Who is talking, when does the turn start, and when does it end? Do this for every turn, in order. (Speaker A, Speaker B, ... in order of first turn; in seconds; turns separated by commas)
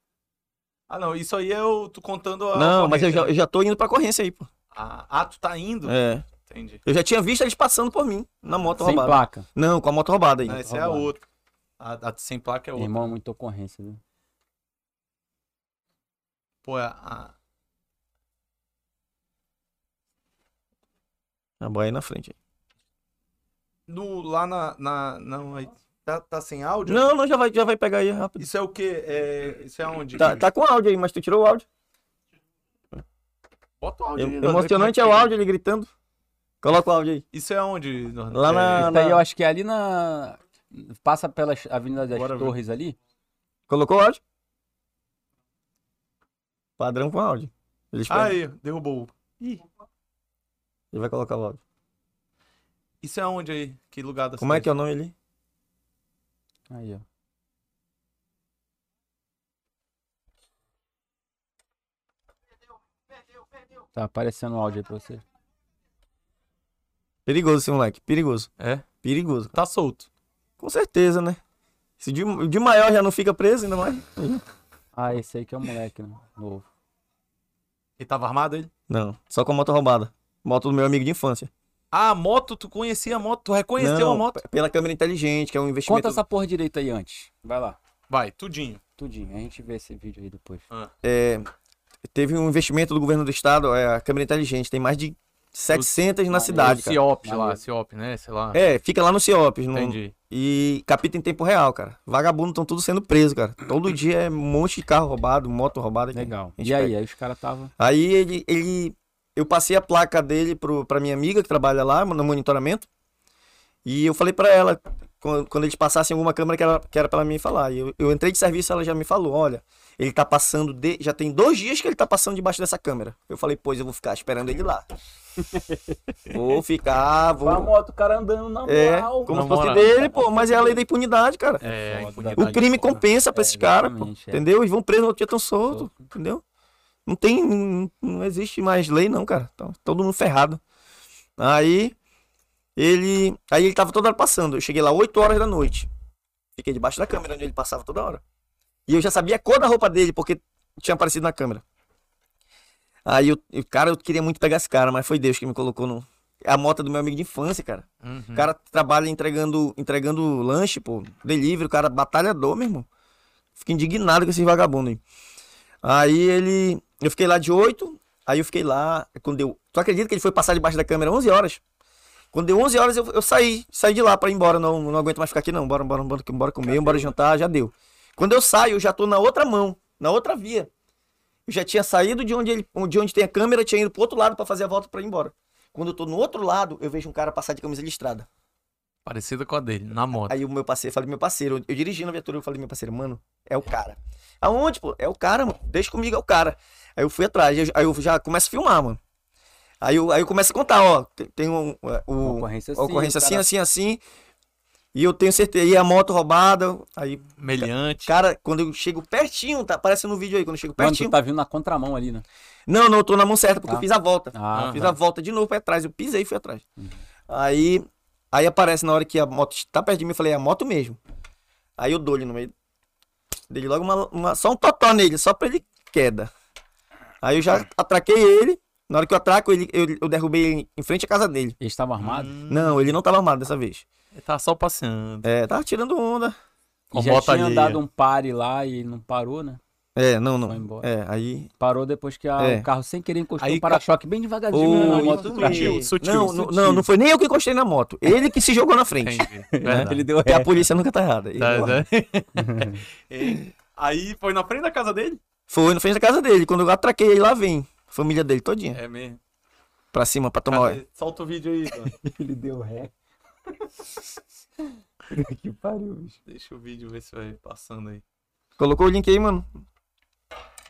Speaker A: 0.9-3.3, Speaker B: 2.5-4.5, Speaker A: 4.7-6.8, Speaker B: 5.8-6.2, Speaker B: 6.8-10.6, Speaker A: 8.5-8.8, Speaker C: 8.8-9.4, Speaker A: 10.4-11.2, Speaker C: 10.5-11.1, Speaker A: 11.8-13.1, Speaker C: 12.8-14.0, Speaker A: 16.6-17.3, Speaker B: 21.6-22.4, Speaker A: 23.9-27.0, Speaker B: 26.9-28.5, Speaker A: 28.4-30.4, Speaker B: 30.1-31.6, Speaker A: 33.8-35.3, Speaker B: 34.1-35.9, Speaker B: 36.6-37.2, Speaker A: 37.3-38.9, Speaker B: 38.3-39.2, Speaker C: 38.8-43.0, Speaker A: 42.1-42.5, Speaker B: 43.7-44.2, Speaker B: 46.8-48.4, Speaker A: 48.1-49.6, Speaker B: 50.9-51.6, Speaker A: 53.0-54.7, Speaker B: 54.4-55.1, Speaker C: 56.7-57.0, Speaker C: 63.9-65.2, Speaker B: 67.2-68.5, Speaker A: 68.6-68.9, Speaker B: 69.0-69.5, Speaker A: 69.5-70.1, Speaker B: 70.6-71.4, Speaker B: 72.0-74.4, Speaker C: 74.9-76.7, Speaker A: 78.0-78.7, Speaker B: 78.9-81.5, Speaker A: 81.9-84.4, Speaker B: 83.8-86.2, Speaker C: 85.8-87.8, Speaker A: 88.1-88.8, Speaker C: 89.0-90.6, Speaker B: 91.0-91.5, Speaker B: 92.1-97.0, Speaker C: 96.3-97.6, Speaker A: 96.5-98.6, Speaker B: 98.5-106.9, Speaker A: 99.7-100.1, Speaker C: 106.1-107.7, Speaker B: 107.8-112.9, Speaker B: 113.8-124.8, Speaker C: 125.4-126.0, Speaker B: 126.3-127.7, Speaker C: 127.4-130.8, Speaker B: 128.7-131.6, Speaker A: 129.3-129.9, Speaker C: 131.6-132.6, Speaker A: 131.6-133.0, Speaker B: 132.3-136.4, Speaker C: 133.3-134.4, Speaker C: 135.7-136.1, Speaker B: 137.1-140.6, Speaker B: 141.4-141.9, Speaker B: 142.8-145.9, Speaker B: 146.6-148.2, Speaker B: 148.9-151.6, Speaker B: 153.1-162.9, Speaker A: 158.0-158.5, Speaker B: 163.6-165.0, Speaker B: 165.8-171.6, Speaker B: 172.3-180.7, Speaker A: 176.7-177.1, Speaker B: 181.5-188.3, Speaker A: 189.1-190.4, Speaker B: 190.2-199.0, Speaker B: 199.8-204.0, Speaker C: 202.2-203.4, Speaker B: 204.9-211.2, Speaker A: 207.4-208.1, Speaker C: 210.8-212.2, Speaker B: 212.7-216.6, Speaker C: 213.7-214.9, Speaker A: 214.5-214.9, Speaker C: 216.8-217.0, Speaker B: 217.3-221.0, Speaker B: 221.8-222.5, Speaker B: 223.5-226.3, Speaker B: 227.2-231.6, Speaker C: 231.6-232.3, Speaker A: 232.0-233.0, Speaker B: 232.5-233.8, Speaker A: 234.1-235.3, Speaker B: 235.2-236.3, Speaker C: 236.9-239.6, Speaker A: 236.9-237.8, Speaker B: 239.9-241.5, Speaker C: 240.5-240.9, Speaker C: 241.6-245.9, Speaker B: 242.4-242.7, Speaker A: 243.4-243.8, Speaker B: 244.5-251.8, Speaker A: 244.5-246.8, Speaker A: 249.0-250.0, Speaker C: 249.5-250.6, Speaker A: 251.4-255.2, Speaker C: 252.3-252.8, Speaker B: 255.5-258.8, Speaker A: 258.7-259.2, Speaker B: 259.9-260.8, Speaker A: 260.5-261.9, Speaker C: 261.9-262.9, Speaker C: 265.1-266.2, Speaker A: 266.2-268.0, Speaker B: 268.6-269.5